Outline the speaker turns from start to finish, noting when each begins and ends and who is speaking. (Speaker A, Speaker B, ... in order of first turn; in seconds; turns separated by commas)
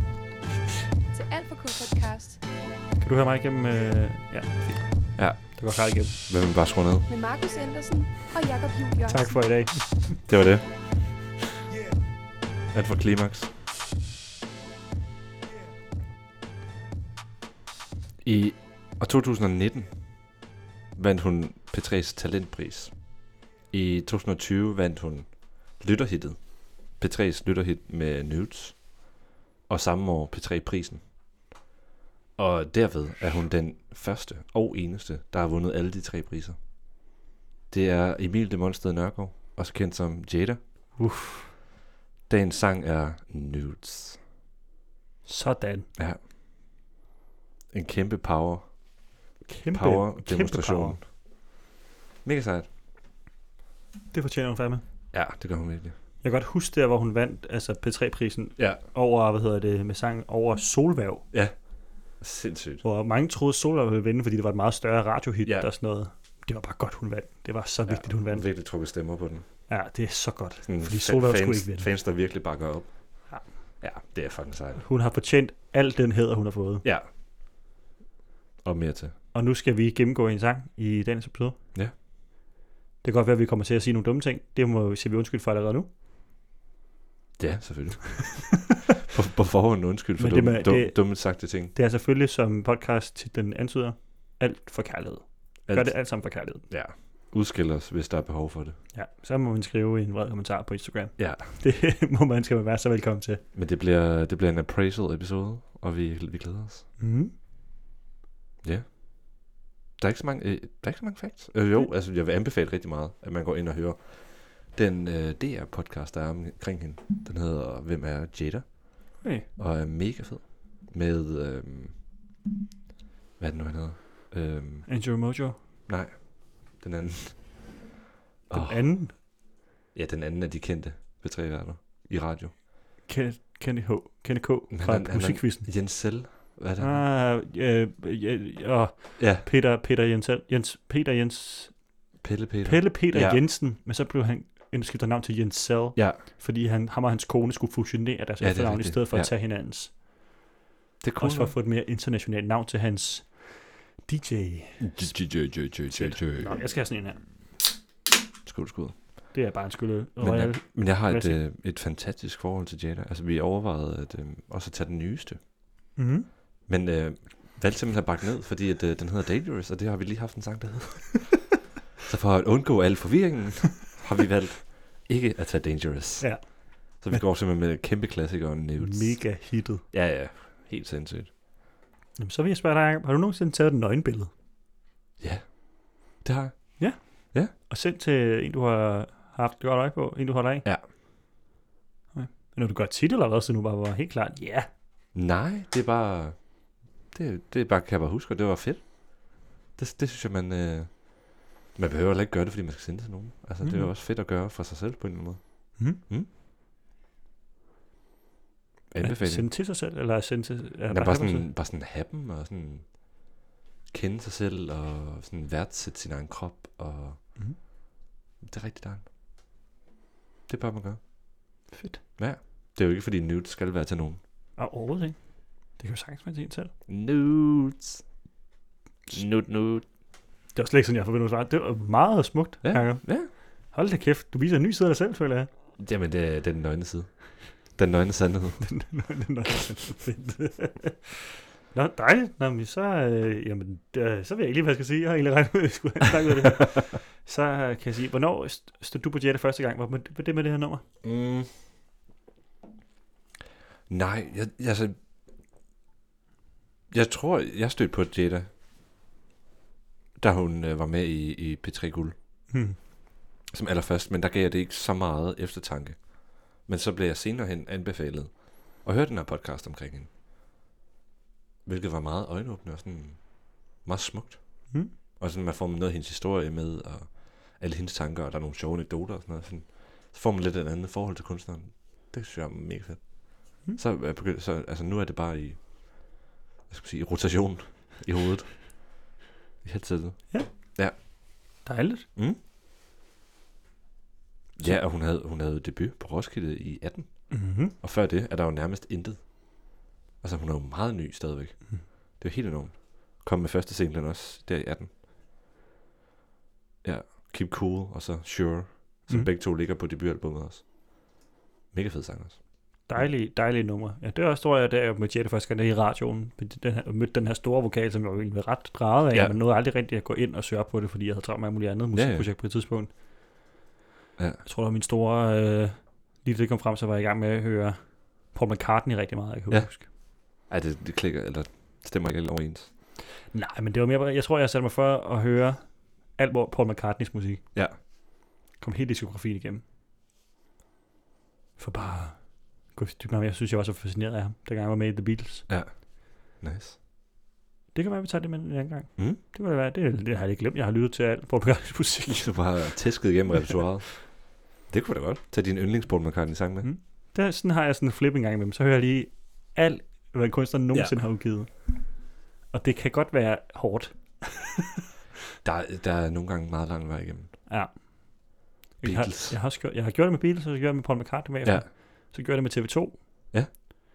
Speaker A: 1.1-2.4, Speaker B: 3.0-6.1, Speaker C: 5.2-7.1, Speaker A: 7.1-9.7, Speaker B: 9.1-10.2, Speaker C: 10.3-10.7, Speaker C: 12.7-13.5, Speaker C: 18.2-20.2, Speaker C: 20.9-22.9, Speaker C: 23.7-28.9, Speaker C: 29.7-31.0, Speaker C: 32.4-36.6, Speaker C: 37.7-40.6, Speaker B: 41.0-41.5, Speaker C: 42.3-44.2, Speaker B: 45.2-45.9, Speaker C: 47.7-48.7, Speaker B: 49.4-51.0, Speaker C: 49.7-51.0, Speaker C: 52.2-52.7, Speaker B: 54.1-54.8, Speaker C: 55.1-55.9, Speaker B: 56.2-61.3, Speaker C: 61.3-62.8, Speaker B: 62.8-68.5, Speaker C: 65.4-65.7, Speaker C: 67.8-69.4, Speaker B: 69.7-71.9, Speaker C: 70.6-74.8, Speaker B: 74.8-76.8, Speaker C: 78.6-79.1, Speaker B: 79.3-81.6, Speaker B: 83.0-85.9, Speaker C: 87.4-91.7, Speaker B: 90.2-96.6, Speaker C: 95.7-98.8, Speaker B: 98.9-103.4, Speaker C: 101.2-101.6, Speaker C: 103.5-106.9, Speaker B: 107.0-107.3, Speaker C: 108.6-122.0, Speaker B: 119.2-119.5, Speaker C: 123.4-124.9, Speaker B: 124.9-125.6, Speaker C: 125.9-127.8, Speaker C: 128.5-129.2, Speaker B: 128.5-129.1, Speaker C: 129.9-132.6, Speaker B: 133.1-135.7, Speaker C: 134.7-137.0, Speaker B: 136.8-141.8, Speaker C: 139.2-139.4, Speaker C: 142.2-143.4, Speaker B: 142.6-149.9, Speaker C: 148.4-149.3, Speaker C: 151.0-151.5, Speaker B: 151.2-155.3, Speaker C: 154.8-156.6, Speaker B: 155.9-157.3, Speaker C: 158.4-159.3, Speaker B: 159.3-161.4, Speaker C: 160.2-165.4, Speaker B: 165.9-166.3, Speaker C: 166.7-171.4, Speaker C: 172.0-181.3, Speaker B: 176.2-177.2, Speaker B: 178.8-179.8, Speaker B: 182.2-184.3, Speaker C: 185.2-187.5, Speaker B: 186.8-190.7, Speaker B: 192.1-194.7, Speaker C: 195.1-196.5, Speaker C: 197.1-206.3, Speaker B: 203.6-203.9, Speaker B: 205.8-206.0, Speaker C: 208.9-209.5, Speaker B: 209.0-211.5, Speaker C: 210.9-213.0, Speaker C: 213.9-217.2, Speaker C: 218.4-219.0, Speaker C: 220.5-221.0, Speaker B: 221.7-222.0, Speaker C: 222.2-224.2, Speaker B: 224.6-226.7, Speaker C: 226.9-228.0, Speaker C: 229.1-229.8, Speaker B: 230.5-235.5, Speaker C: 232.6-233.3, Speaker C: 235.8-238.7, Speaker B: 238.6-241.2, Speaker B: 241.7-250.8, Speaker C: 251.0-251.5, Speaker C: 253.9-254.9, Speaker C: 256.9-258.5, Speaker C: 260.2-262.1, Speaker B: 262.5-262.8, Speaker C: 263.5-270.1, Speaker C: 271.6-285.6, Speaker C: 286.7-288.6, Speaker C: 289.6-290.9, Speaker B: 291.6-292.1, Speaker C: 294.6-304.9, Speaker B: 297.3-297.7, Speaker C: 306.8-310.6, Speaker C: 311.7-313.1, Speaker B: 312.9-322.9, Speaker C: 321.9-322.3, Speaker C: 324.2-324.4, Speaker B: 324.4-329.9, Speaker C: 329.5-332.7, Speaker B: 333.3-337.4, Speaker B: 338.6-339.6, Speaker B: 341.6-345.5, Speaker C: 345.5-346.8, Speaker B: 347.7-352.5, Speaker C: 352.1-356.7, Speaker B: 356.6-364.5, Speaker C: 360.7-361.0, Speaker C: 365.4-367.4, Speaker B: 367.5-373.0, Speaker C: 368.8-369.4